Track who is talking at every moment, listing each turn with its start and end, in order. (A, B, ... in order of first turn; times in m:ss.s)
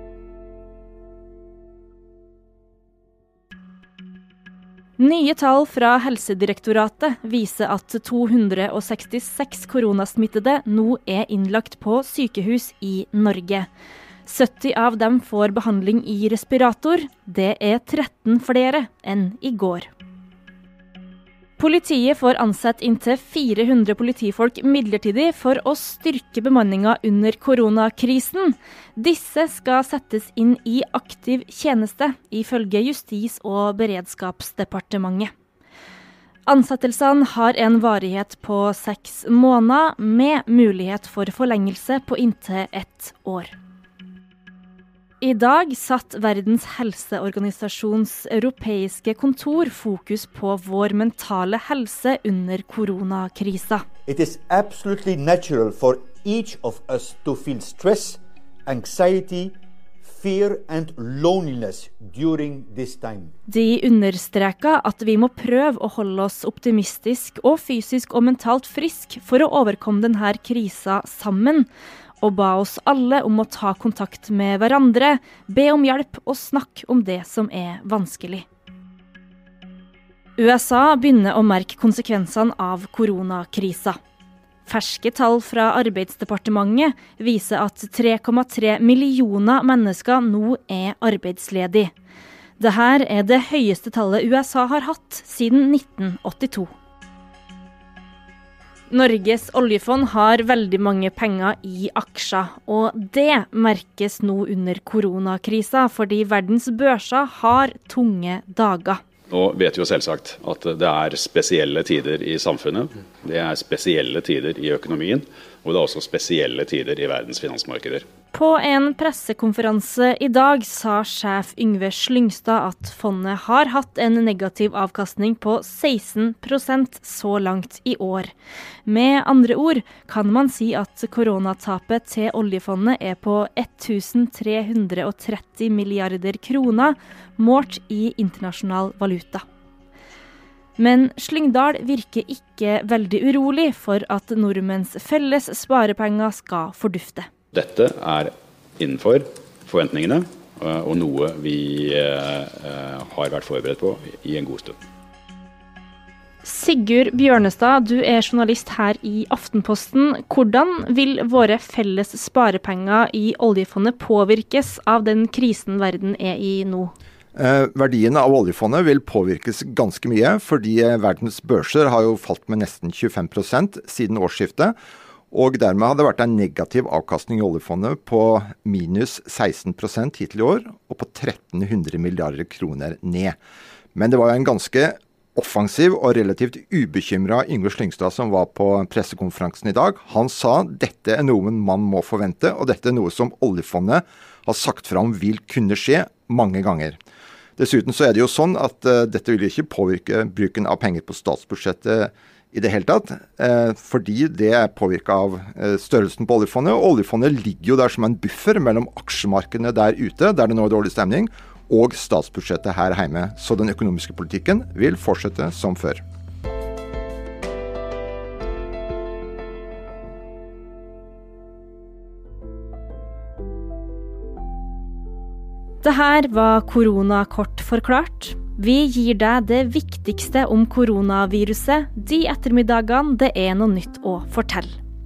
0:05.0-0:13.7 A
0:14.2-0:19.9 A
0:21.6-0:35.3 A
0:36.4-0:43.5 A
0:45.2-0:53.8 A
0:54.1-1:03.3 B
1:03.5-1:11.7 A
1:12.2-1:18.4 A
1:20.4-1:24.0 A
1:24.6-1:31.9 A
1:32.6-1:36.7 A
1:38.9-1:49.0 A
1:49.3-1:58.0 C
1:58.3-2:08.3 A
2:08.8-2:19.4 A
2:20.8-2:27.3 A
2:27.5-2:34.8 C
2:36.4-2:46.9 A
2:47.4-2:54.7 D
2:55.3-3:03.4 D
3:03.9-3:17.0 D
3:17.6-3:36.0 D
3:45.8-3:54.8 A